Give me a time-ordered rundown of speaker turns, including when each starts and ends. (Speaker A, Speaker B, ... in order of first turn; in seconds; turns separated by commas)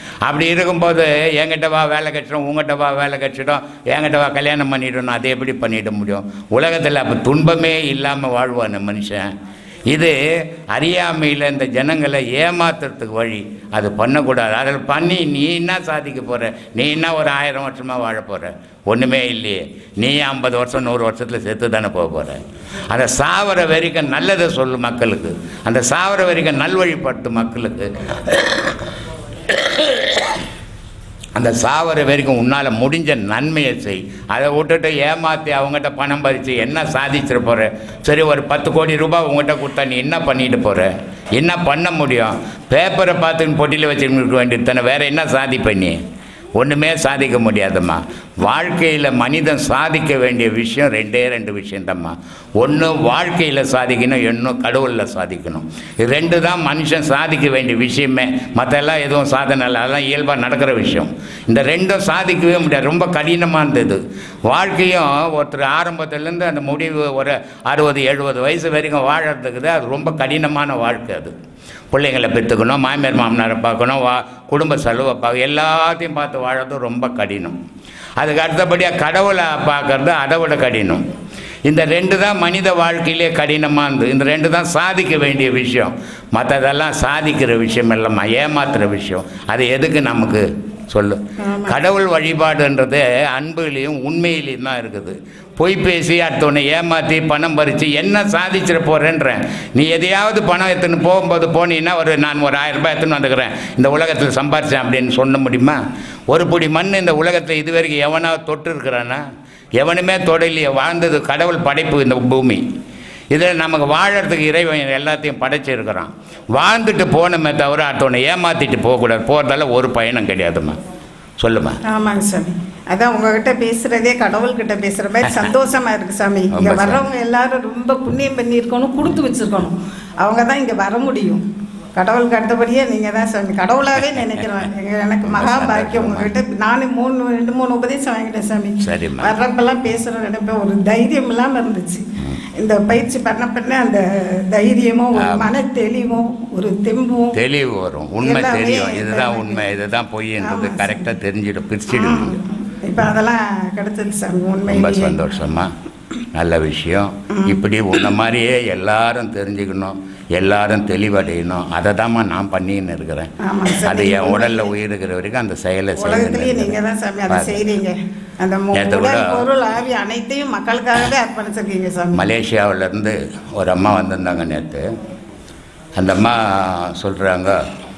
Speaker A: 0.2-9.3, Speaker A: 10.7-22.4, Speaker A: 22.9-28.7, Speaker A: 31.4-46.0, Speaker A: 46.5-71.3, Speaker A: 71.9-77.5, Speaker A: 78.2-81.0, Speaker A: 81.7-105.8, Speaker B: 91.4-91.8, Speaker A: 106.3-109.2, Speaker A: 109.8-112.6, Speaker A: 113.3-120.7, Speaker A: 121.4-121.8, Speaker B: 121.8-131.4, Speaker A: 126.5-127.0, Speaker B: 131.9-142.0, Speaker A: 135.3-136.3, Speaker A: 138.8-139.3, Speaker B: 142.6-147.3, Speaker A: 145.2-145.5, Speaker A: 147.3-152.4, Speaker B: 148.2-149.6, Speaker B: 150.4-151.0, Speaker B: 151.9-155.2, Speaker A: 154.7-155.7, Speaker A: 156.3-163.3, Speaker B: 157.3-157.6, Speaker B: 163.4-164.7, Speaker A: 163.8-166.8, Speaker B: 165.9-172.3, Speaker A: 167.3-167.6, Speaker A: 168.7-169.3, Speaker A: 172.2-174.8, Speaker A: 175.9-177.6